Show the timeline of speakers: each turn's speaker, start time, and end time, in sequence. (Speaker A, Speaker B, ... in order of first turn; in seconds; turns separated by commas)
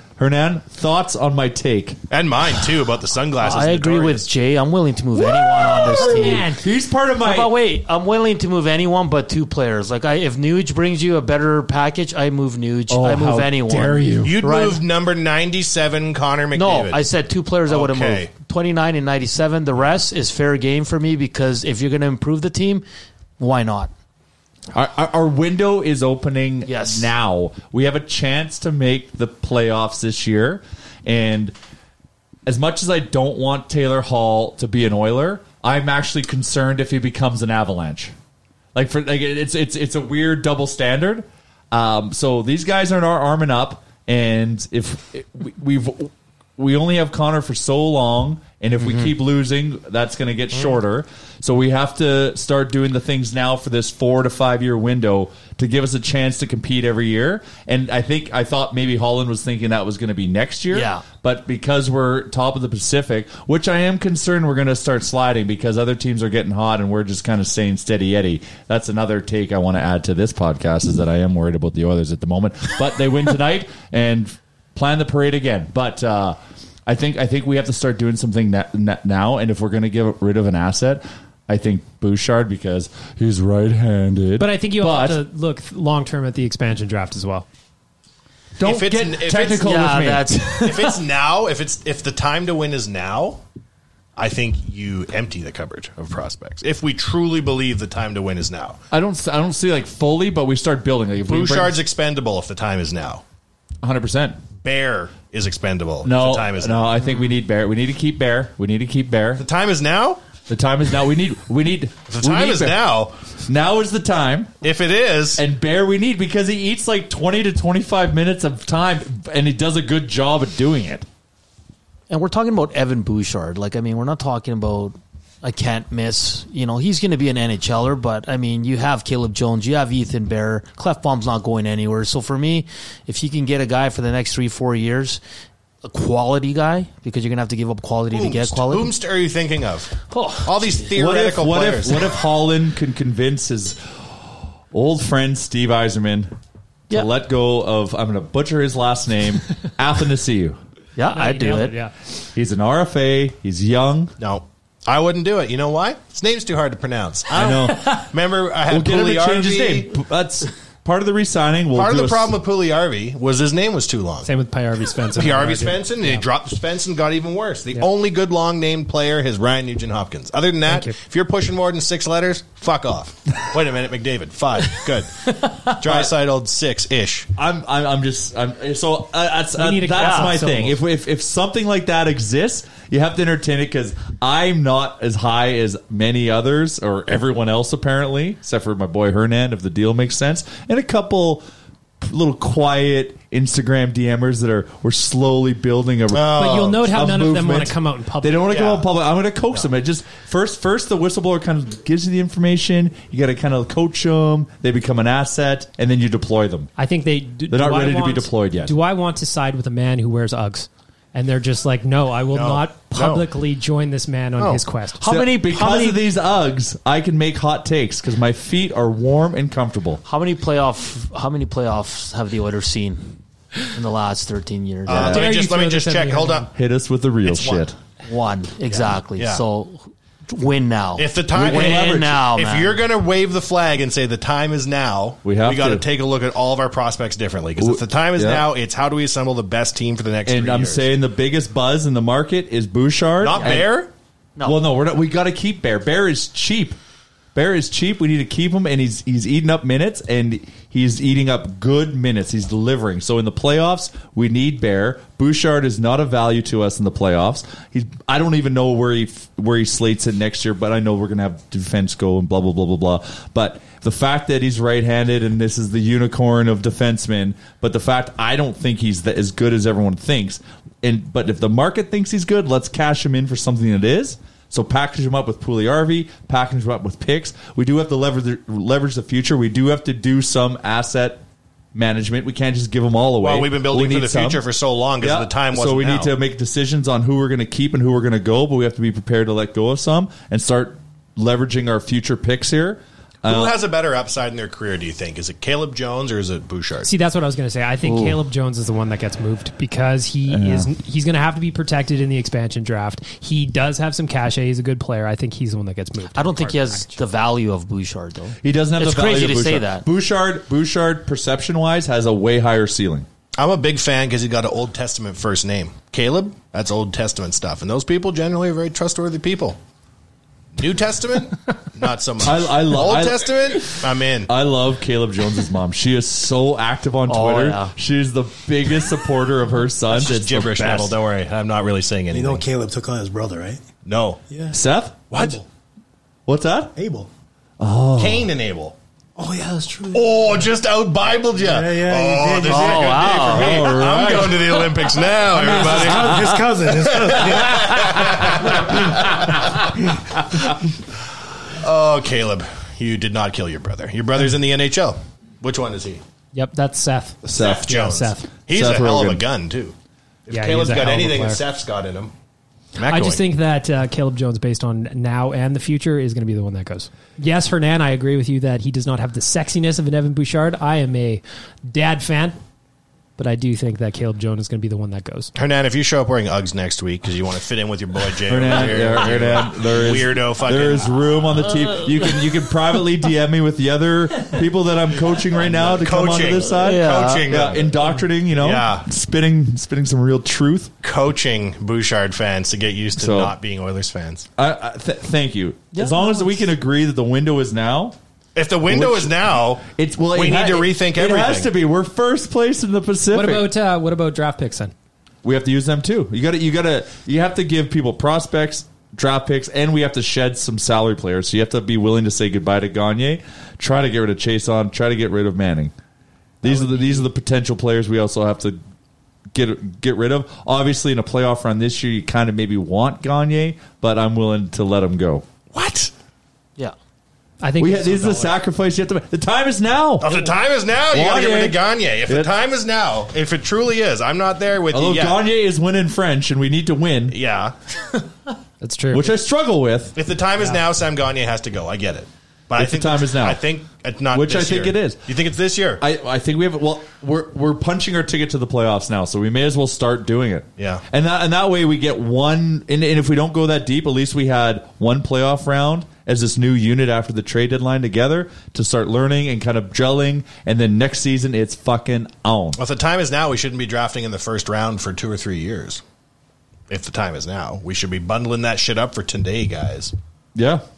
Speaker A: 0.2-2.0, Speaker B: 2.1-4.3, Speaker C: 3.4-6.5, Speaker A: 5.2-7.5, Speaker D: 5.9-6.6, Speaker C: 7.2-14.8, Speaker A: 12.9-14.3, Speaker B: 14.2-17.0, Speaker C: 16.5-22.8, Speaker B: 17.6-18.3, Speaker C: 23.4-23.9, Speaker A: 24.7-31.5, Speaker C: 26.6-27.1, Speaker A: 32.5-38.1, Speaker A: 38.7-85.2, Speaker C: 60.7-61.1, Speaker D: 84.4-87.5, Speaker A: 88.6-90.3, Speaker B: 88.6-89.7, Speaker C: 89.6-91.0, Speaker B: 90.6-93.4, Speaker B: 94.2-98.8, Speaker A: 98.9-101.8, Speaker B: 101.3-103.2, Speaker A: 103.8-104.4, Speaker B: 104.6-106.9, Speaker A: 106.0-109.4, Speaker B: 109.4-110.2, Speaker A: 110.5-112.8, Speaker B: 112.1-113.1, Speaker A: 113.5-114.5, Speaker B: 114.6-115.4, Speaker A: 115.3-121.0, Speaker C: 122.1-135.2, Speaker C: 135.8-138.9, Speaker B: 138.1-142.1, Speaker C: 140.1-140.8, Speaker A: 140.9-143.8, Speaker A: 144.7-146.3, Speaker A: 146.9-150.6, Speaker C: 150.9-151.8, Speaker D: 151.1-151.9, Speaker A: 152.3-154.1, Speaker B: 154.2-159.9, Speaker A: 157.3-158.1, Speaker A: 158.7-162.3, Speaker B: 161.7-164.3, Speaker D: 164.2-166.2, Speaker B: 165.1-177.3, Speaker D: 170.7-170.9, Speaker A: 177.4-191.4, Speaker D: 179.6-180.8, Speaker C: 180.0-180.3, Speaker A: 192.0-206.7, Speaker B: 196.1-196.7, Speaker D: 196.3-198.5, Speaker B: 198.5-198.8, Speaker D: 206.8-215.7, Speaker A: 207.5-208.7, Speaker B: 212.3-213.2, Speaker A: 215.0-220.0, Speaker C: 215.1-216.0, Speaker C: 220.1-223.2, Speaker C: 223.7-225.2, Speaker B: 224.8-226.5, Speaker A: 224.9-225.3, Speaker D: 224.9-226.5, Speaker A: 226.5-227.8, Speaker B: 227.2-227.7, Speaker C: 228.0-232.8, Speaker B: 229.1-229.4, Speaker B: 231.0-240.9, Speaker A: 231.3-232.2, Speaker A: 235.2-235.8, Speaker A: 237.6-238.5, Speaker A: 240.2-243.8, Speaker B: 243.2-243.9, Speaker C: 244.4-244.6, Speaker A: 244.4-246.8, Speaker A: 247.3-281.2, Speaker A: 281.7-284.4, Speaker B: 283.2-286.1, Speaker A: 285.0-293.6, Speaker B: 293.2-296.9, Speaker D: 296.8-306.9, Speaker A: 297.9-298.2, Speaker A: 300.3-300.7, Speaker C: 306.1-309.9, Speaker A: 308.4-313.1, Speaker B: 313.4-319.6, Speaker B: 320.6-324.3, Speaker A: 322.2-331.0, Speaker C: 327.1-327.8, Speaker B: 329.9-332.4, Speaker E: 332.1-333.6, Speaker B: 333.8-334.2, Speaker E: 334.3-334.6, Speaker A: 334.5-335.0, Speaker B: 335.1-335.4, Speaker E: 335.1-335.4, Speaker A: 336.3-336.7, Speaker E: 336.8-337.1, Speaker A: 337.6-338.3, Speaker B: 338.0-338.8, Speaker E: 339.2-340.3, Speaker B: 339.9-349.3, Speaker E: 341.4-343.1, Speaker C: 342.5-343.6, Speaker A: 343.2-344.7, Speaker E: 345.4-348.7, Speaker A: 345.4-346.5, Speaker B: 351.6-356.0, Speaker D: 356.3-358.3, Speaker B: 357.3-359.7, Speaker A: 357.3-357.7, Speaker A: 358.5-359.2, Speaker B: 360.3-362.1, Speaker D: 360.3-361.4, Speaker B: 362.8-363.2, Speaker D: 362.8-372.4, Speaker D: 373.2-375.3, Speaker B: 375.3-380.9, Speaker A: 378.3-390.7, Speaker B: 385.4-387.7, Speaker C: 386.6-387.3, Speaker B: 388.3-388.9, Speaker B: 390.8-394.3, Speaker A: 392.9-393.3, Speaker A: 394.4-397.9, Speaker B: 398.4-401.5, Speaker A: 398.7-399.1, Speaker A: 399.6-403.5, Speaker D: 403.1-404.7, Speaker A: 405.2-415.7, Speaker A: 416.4-418.6, Speaker C: 416.4-417.1, Speaker A: 419.3-425.2, Speaker B: 425.5-425.9, Speaker D: 427.4-428.4, Speaker A: 427.6-430.3, Speaker B: 430.0-435.2, Speaker A: 430.9-432.3, Speaker A: 434.7-437.2, Speaker B: 437.1-437.5, Speaker D: 438.6-439.1, Speaker A: 438.9-439.9, Speaker B: 439.9-445.8, Speaker A: 442.6-443.4, Speaker A: 444.1-445.0, Speaker A: 445.8-462.6, Speaker B: 450.6-450.8, Speaker B: 462.6-465.8, Speaker B: 466.7-469.9, Speaker A: 470.3-470.6